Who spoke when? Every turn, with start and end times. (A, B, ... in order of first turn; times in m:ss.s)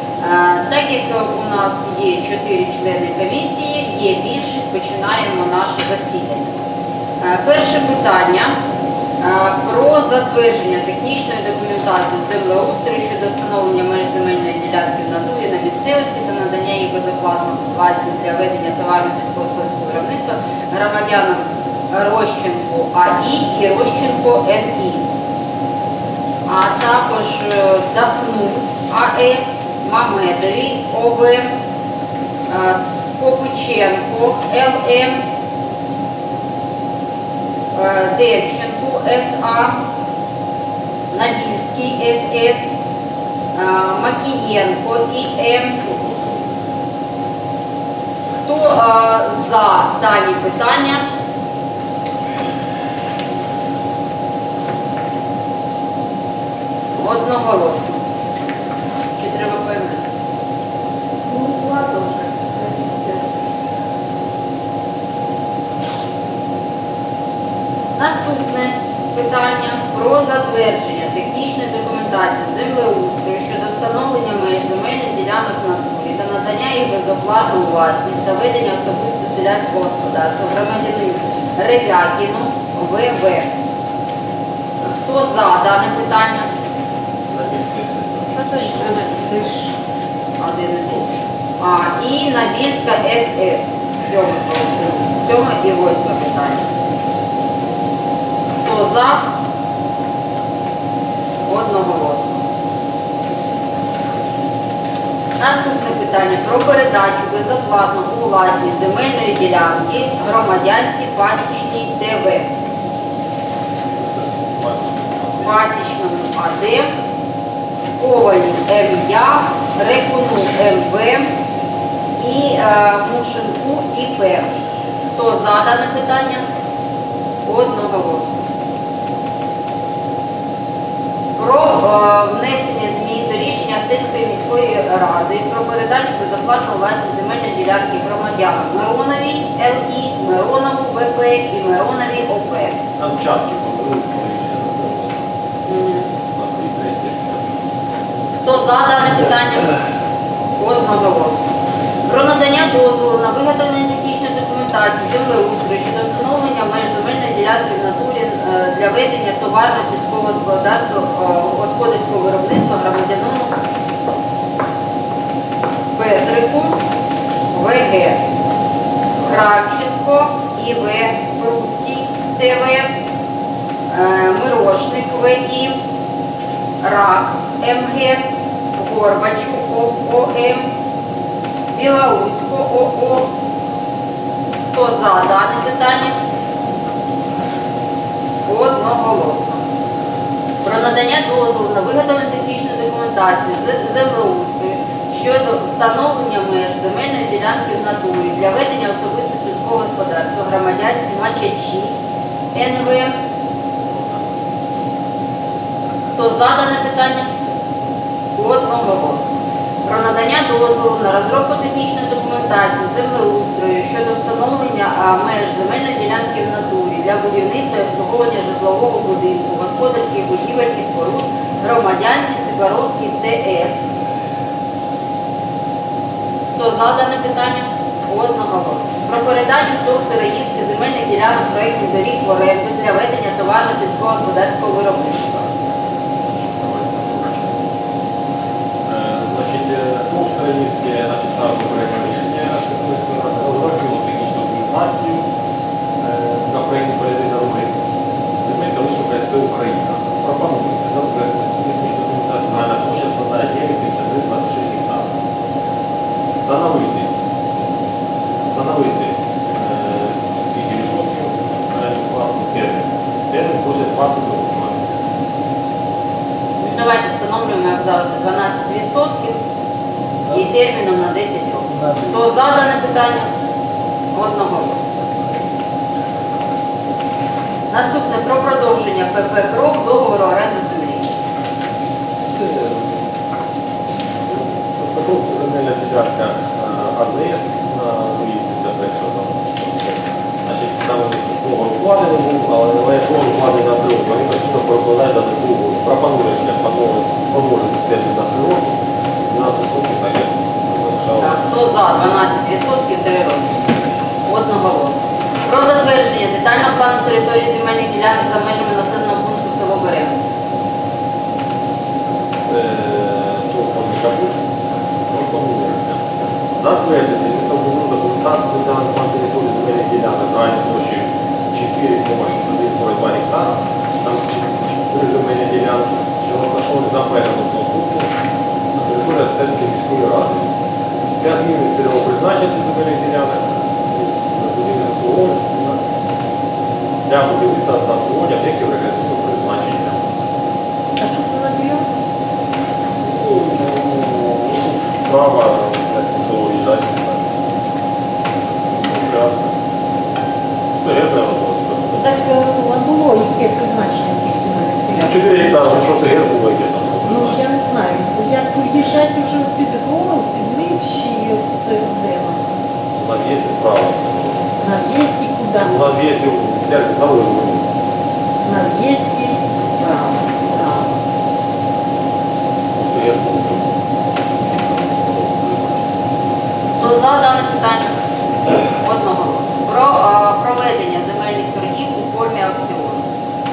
0:00.2-0:06.6 A
0:07.2-0:08.5 A
0:09.2-0:25.0 A
0:26.4-0:31.5 A
0:32.5-0:35.2 A
0:37.7-0:39.8 A
0:41.1-0:42.7 A
0:43.5-0:45.8 A
0:45.7-0:46.8 B
0:48.4-0:51.0 A
0:56.9-0:58.0 A
0:59.2-1:00.0 A
1:01.2-1:03.3 C
1:08.0-1:23.5 A
1:24.8-1:26.5 A
1:27.3-1:29.5 B
1:28.3-1:29.8 C
1:30.4-1:31.1 A
1:31.6-1:36.6 A
1:38.6-1:39.2 A
1:41.4-1:42.4 A
1:45.4-1:52.5 A
1:53.9-1:55.6 B
1:55.4-1:56.9 A
1:58.0-2:01.3 A
2:02.2-2:04.5 A
2:05.1-2:06.4 A
2:07.4-2:08.3 A
2:11.4-2:22.8 A
2:23.0-2:25.3 B
2:25.6-2:26.1 A
2:26.3-2:27.5 B
2:28.4-2:29.7 A
2:30.6-2:31.5 A
2:32.0-2:43.5 A
2:45.9-2:46.7 A
2:47.5-2:48.2 A
2:49.2-2:52.9 A
2:53.9-2:55.8 A
2:56.8-2:58.2 A
2:58.7-3:00.7 A
3:01.7-3:03.3 A
3:04.7-3:06.1 A
3:08.4-3:09.7 A
3:10.6-3:21.9 A
3:22.5-3:23.1 A
3:23.9-3:24.2 B
3:26.1-3:27.3 A
3:28.3-3:29.3 A
3:29.8-3:43.8 A
3:46.5-3:55.5 A
3:56.6-3:57.6 B
3:58.8-4:05.2 B
4:06.0-4:15.1 B
4:16.3-4:17.1 B
4:18.4-4:24.8 B
4:26.6-4:29.4 A
4:30.3-4:33.3 A
4:34.1-4:35.1 A
4:37.7-4:41.1 A
4:42.2-4:43.1 B
4:44.2-4:58.7 B
4:59.3-5:01.4 B
5:01.2-5:03.6 A
5:04.2-5:10.3 A
5:12.4-5:14.4 B
5:15.1-5:28.1 B
5:28.8-5:30.5 B
5:31.2-5:35.8 B
5:37.1-5:40.0 B
5:41.0-5:41.9 C
5:43.0-5:47.3 B
5:48.7-5:49.5 B
5:50.8-5:52.1 B
5:52.0-5:56.0 C
5:55.0-5:57.4 B
5:57.0-6:02.6 C
6:03.0-6:04.5 B
6:04.6-6:05.8 C
6:05.6-6:07.7 B
6:08.4-6:10.9 C
6:12.8-6:15.9 B
6:16.8-6:17.9 A
6:18.6-6:23.0 A